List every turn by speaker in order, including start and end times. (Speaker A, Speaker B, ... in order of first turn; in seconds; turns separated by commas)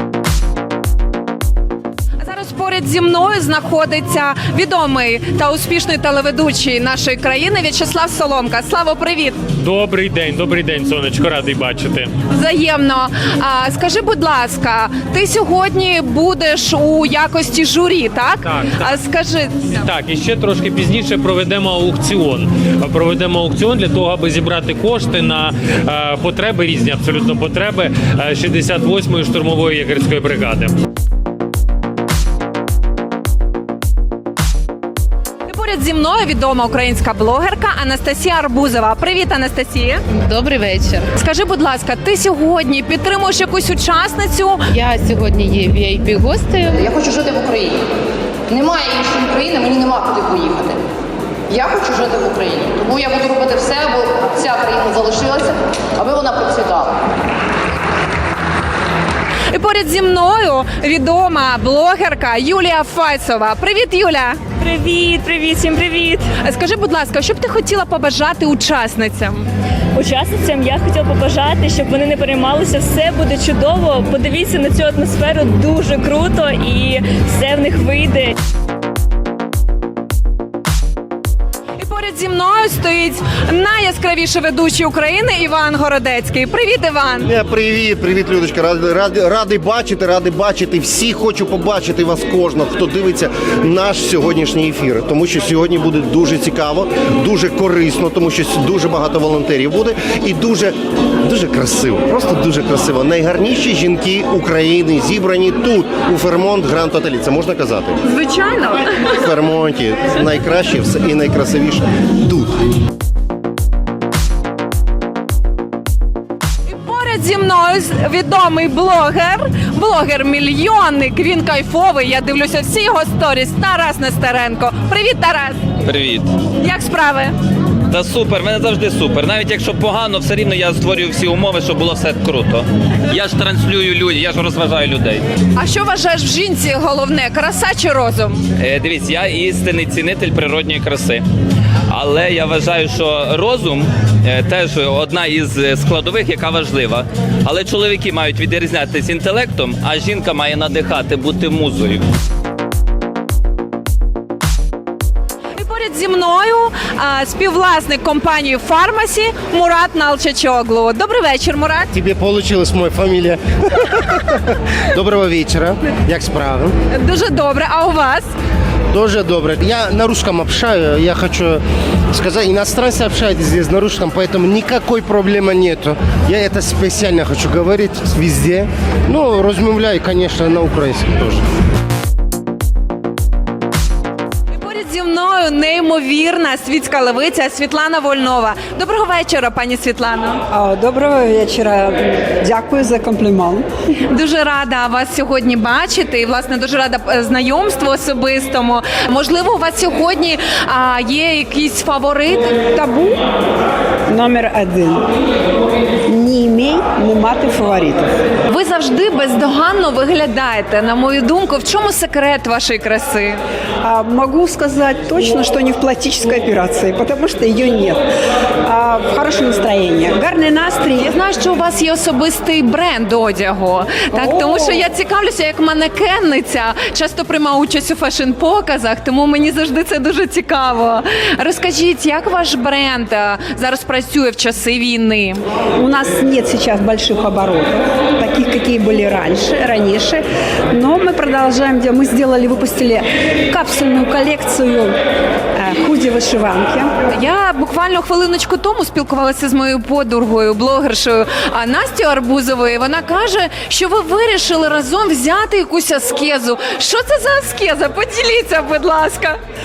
Speaker A: 2.2-9.4, Speaker B: 9.6-12.1, Speaker A: 12.3-19.8, Speaker B: 18.5-18.8, Speaker B: 19.9-30.7, Speaker A: 35.5-40.0, Speaker C: 40.4-41.0, Speaker A: 41.1-44.6, Speaker C: 44.8-46.6, Speaker D: 46.8-47.5, Speaker D: 48.6-50.6, Speaker D: 51.5-55.4, Speaker D: 56.1-56.9, Speaker A: 59.5-64.4, Speaker E: 64.6-66.1, Speaker A: 66.3-69.4, Speaker E: 69.9-78.3, Speaker A: 81.8-87.3, Speaker F: 87.2-108.0, Speaker A: 108.1-108.8, Speaker F: 109.2-112.6, Speaker A: 116.7-125.6, Speaker G: 125.8-126.3, Speaker A: 126.6-127.3, Speaker G: 127.9-135.2, Speaker A: 135.6-138.4, Speaker G: 138.6-141.2, Speaker G: 141.9-152.0, Speaker A: 155.6-161.9, Speaker F: 161.9-166.7, Speaker A: 166.9-168.3, Speaker F: 168.9-171.6, Speaker F: 172.1-181.4, Speaker A: 184.5-190.4, Speaker H: 190.5-193.6, Speaker A: 194.1-203.2, Speaker H: 204.1-205.0, Speaker H: 206.1-208.1, Speaker A: 208.5-213.4, Speaker H: 213.8-218.0, Speaker H: 218.7-221.1, Speaker A: 221.0-235.4, Speaker H: 224.1-224.8, Speaker H: 235.8-244.9, Speaker H: 245.6-246.9, Speaker A: 247.1-259.4